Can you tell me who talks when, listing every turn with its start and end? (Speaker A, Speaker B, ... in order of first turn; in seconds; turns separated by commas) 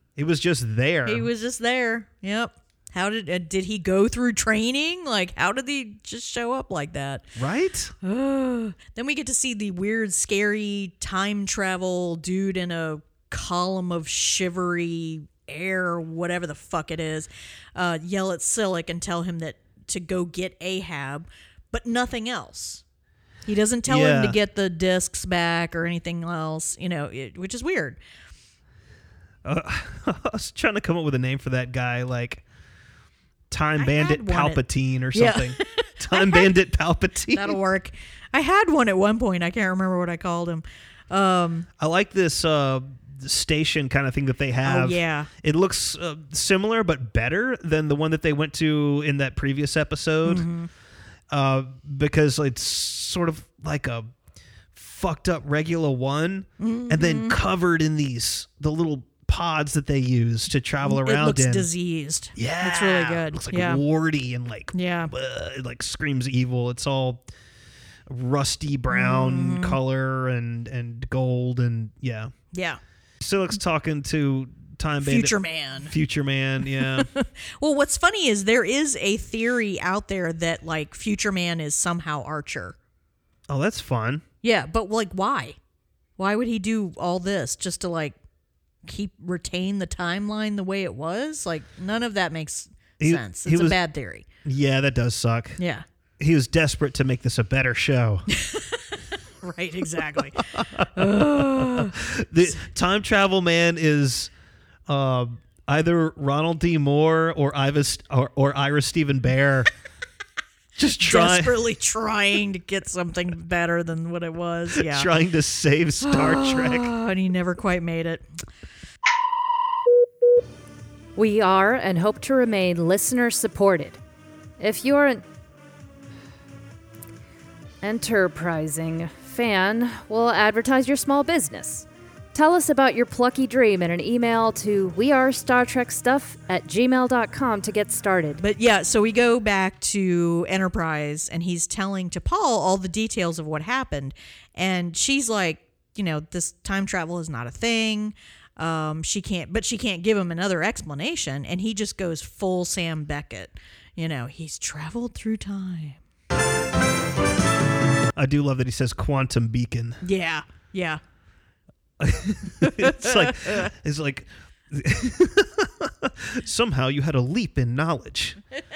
Speaker A: 0.2-1.3, Speaker B: 1.1-7.3, Speaker A: 7.4-7.9, Speaker B: 8.0-22.8, Speaker B: 23.5-28.0, Speaker A: 23.9-24.4, Speaker A: 29.4-32.4, Speaker A: 33.5-37.6, Speaker B: 33.8-34.6, Speaker B: 35.1-36.5, Speaker B: 37.3-41.7, Speaker A: 41.8-50.5, Speaker B: 44.6-45.3, Speaker B: 50.2-50.7, Speaker A: 51.3-54.1, Speaker A: 54.7-61.7, Speaker B: 56.6-57.4, Speaker B: 60.8-63.8, Speaker A: 62.4-67.2, Speaker B: 64.7-65.1, Speaker A: 68.1-72.3, Speaker B: 68.9-69.8, Speaker B: 72.5-72.8, Speaker A: 73.2-77.1, Speaker B: 75.0-75.9, Speaker B: 76.8-82.8, Speaker A: 83.5-84.2, Speaker B: 84.4-85.6, Speaker B: 86.2-88.2, Speaker B: 88.8-94.2, Speaker A: 93.0-93.8, Speaker A: 94.4-95.6, Speaker B: 95.6-95.8, Speaker A: 96.2-98.3, Speaker B: 98.3-102.0, Speaker A: 100.4-104.3, Speaker A: 104.9-109.7, Speaker A: 110.8-111.6, Speaker B: 111.0-115.1, Speaker A: 114.7-116.9, Speaker B: 116.0-118.2, Speaker C: 121.2-124.0, Speaker C: 124.6-125.2, Speaker C: 127.8-138.4, Speaker B: 138.4-156.0, Speaker A: 158.2-160.0, Speaker B: 160.0-161.0, Speaker A: 162.0-168.4, Speaker B: 162.6-163.7